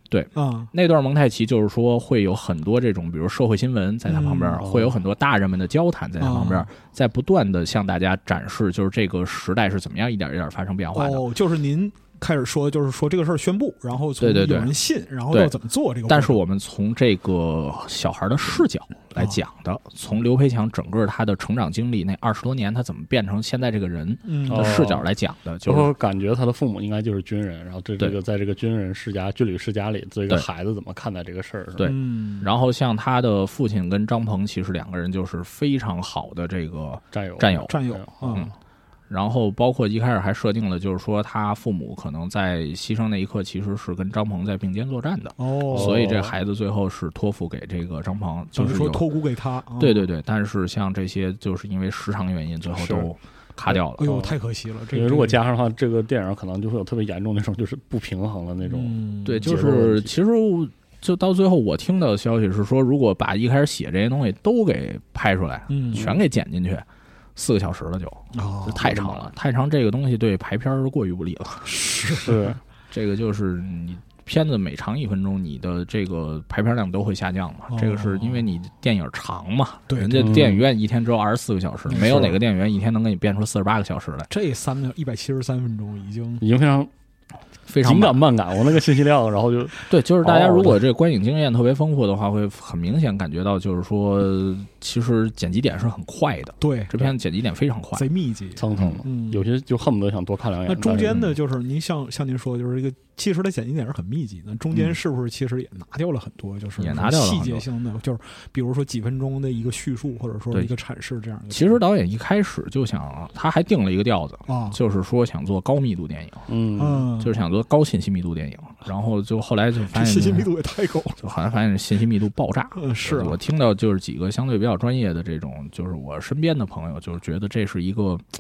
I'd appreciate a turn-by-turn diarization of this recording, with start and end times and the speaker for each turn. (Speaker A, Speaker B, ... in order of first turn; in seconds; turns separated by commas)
Speaker A: 0.1-11.3, Speaker B: 0.3-0.7, Speaker B: 4.1-4.7, Speaker C: 4.6-4.9, Speaker B: 6.2-6.7, Speaker B: 10.9-16.4, Speaker A: 14.2-14.7, Speaker A: 16.1-25.9, Speaker B: 24.3-24.9, Speaker C: 24.5-25.0, Speaker C: 25.6-31.9, Speaker A: 31.8-37.7, Speaker B: 31.8-32.5, Speaker C: 37.1-38.5, Speaker B: 37.7-38.5, Speaker A: 39.1-49.1, Speaker B: 45.4-46.1, Speaker C: 45.7-46.3, Speaker B: 48.5-50.1, Speaker A: 49.8-54.1, Speaker B: 53.9-55.4, Speaker C: 54.0-54.4, Speaker C: 54.9-60.1, Speaker B: 58.6-59.6, Speaker A: 59.2-71.7, Speaker B: 65.7-66.2, Speaker B: 68.3-68.9, Speaker C: 68.8-69.3, Speaker B: 71.6-72.5, Speaker C: 72.2-72.6, Speaker A: 72.9-84.3, Speaker B: 77.7-78.5, Speaker B: 79.9-80.5, Speaker C: 80.2-80.6, Speaker B: 81.9-82.4, Speaker B: 84.3-86.4, Speaker C: 86.4-86.9, Speaker A: 87.7-88.2, Speaker C: 87.8-90.8, Speaker A: 89.9-98.1, Speaker B: 96.6-97.1, Speaker B: 98.0-99.5, Speaker C: 98.6-101.2, Speaker B: 100.7-111.8, Speaker A: 106.8-107.7, Speaker A: 111.5-116.5, Speaker B: 114.5-114.8, Speaker C: 116.5-117.1, Speaker B: 116.8-117.4, Speaker A: 117.2-120.5, Speaker B: 119.8-121.2, Speaker A: 121.2-128.2, Speaker B: 122.8-123.4